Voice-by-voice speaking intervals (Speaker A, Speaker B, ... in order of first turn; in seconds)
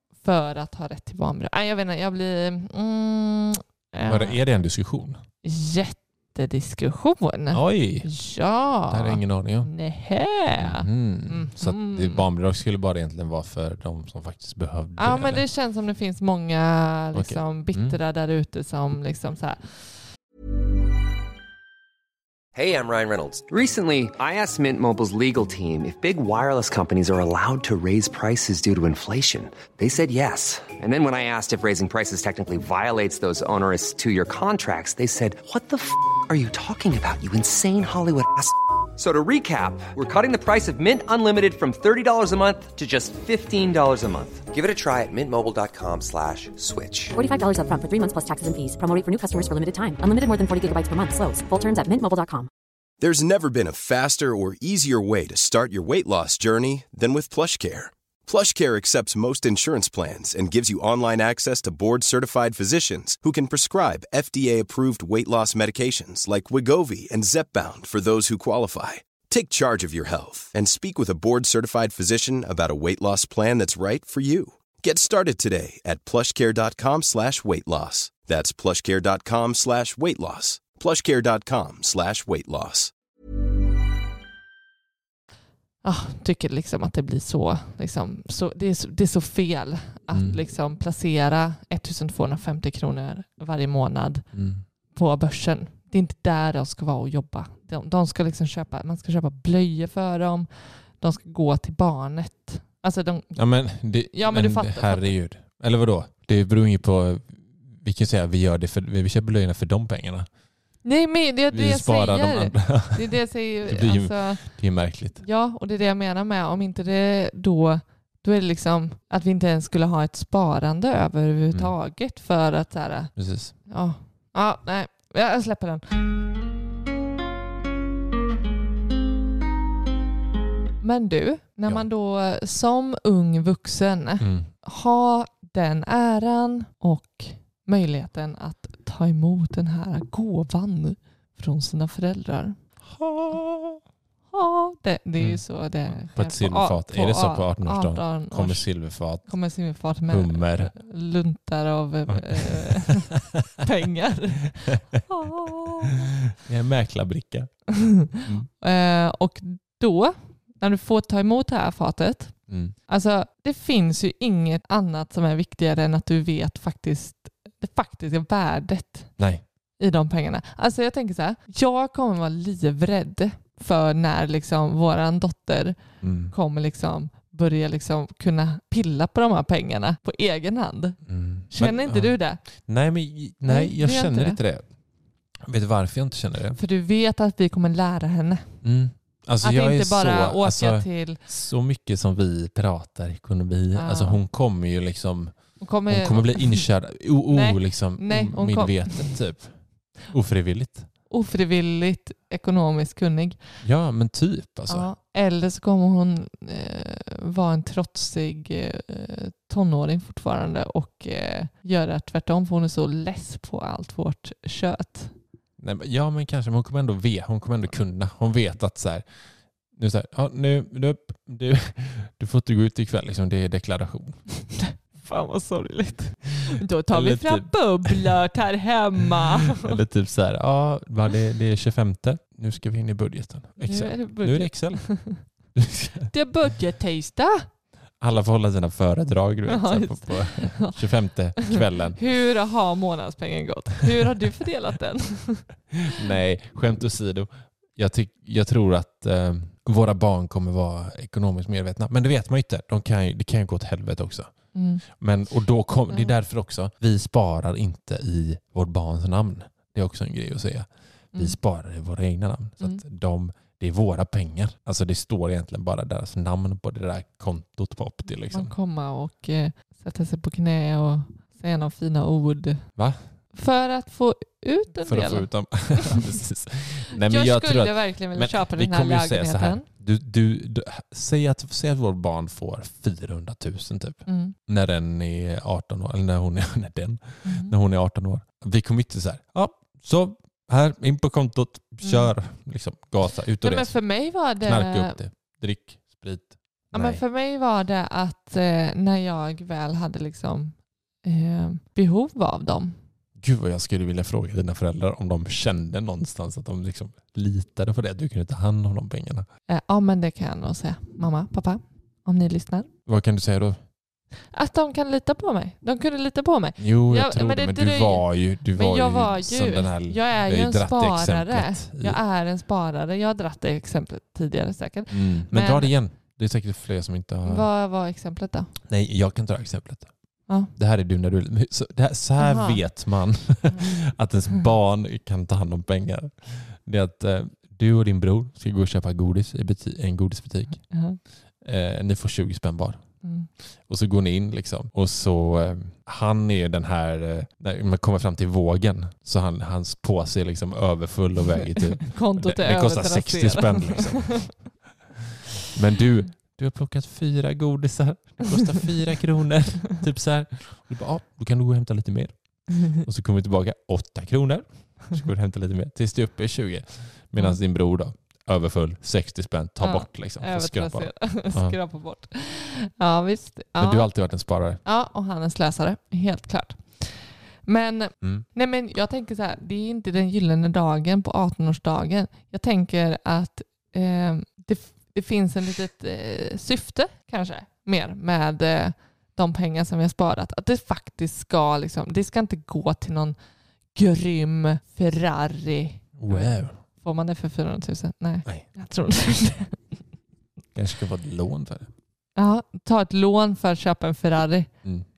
Speaker A: 0.2-4.4, 5.4-12.2, 15.0-19.9, 85.8-94.3, 94.9-100.5, 101.0-103.3, 104.1-105.1, 110.8-114.5, 115.2-123.1, 123.7-126.0, 130.8-142.6, 144.3-148.7, 149.2-156.1, 157.8-162.3, 162.9-169.1, 169.8-175.8, 176.3-181.0, 181.5-182.4, 183.4-184.4, 186.5-188.4, 189.4-191.2, 193.7-194.2, 195.6-196.6, 197.3-199.2, 201.1-203.4, 204.7-215.1, 224.6-229.8, 233.6-235.2, 236.1-237.5, 239.5-240.8, 241.4-246.0, 254.5-254.8, 268.3-272.6, 273.3-275.3, 277.0-279.6, 284.1-284.4, 287.2-287.5, 291.8-292.1, 293.4-294.9, 296.7-302.8, 309.5-312.7, 314.3-325.7, 327.2-328.5, 332.2-332.6, 340.7-341.0, 343.0-343.3, 351.7-354.4, 369.6-373.9, 374.6-393.1, 393.7-399.8, 402.2-404.5
Speaker B: 4.0-5.2, 7.5-8.1, 8.9-9.7, 10.6-15.4, 17.1-18.0, 90.1-90.4, 94.3-94.6, 103.3-110.3, 111.5-115.2, 123.2-123.5, 134.2-134.5, 142.9-143.8, 145.2-149.3, 150.1-150.7, 152.1-153.2, 154.7-154.9, 156.3-157.6, 158.2-158.5, 162.5-162.7, 169.2-169.4, 176.0-176.3, 181.1-184.7, 185.4-186.6, 188.6-200.9, 203.6-204.9, 215.6-219.0, 219.7-224.2, 226.9-228.2, 229.4-235.0, 235.5-236.1, 238.0-242.0, 245.9-268.5, 274.9-297.0, 303.2-309.3, 312.9-313.6, 316.6-322.0, 324.9-327.5, 328.7-329.9, 330.5-340.6, 341.4-342.8, 343.7-354.6, 355.5-371.6, 373.6-374.6, 396.0-396.6, 400.5-401.7
Speaker C: 22.5-47.1
Speaker D: 47.1-52.5
Speaker E: 53.0-82.9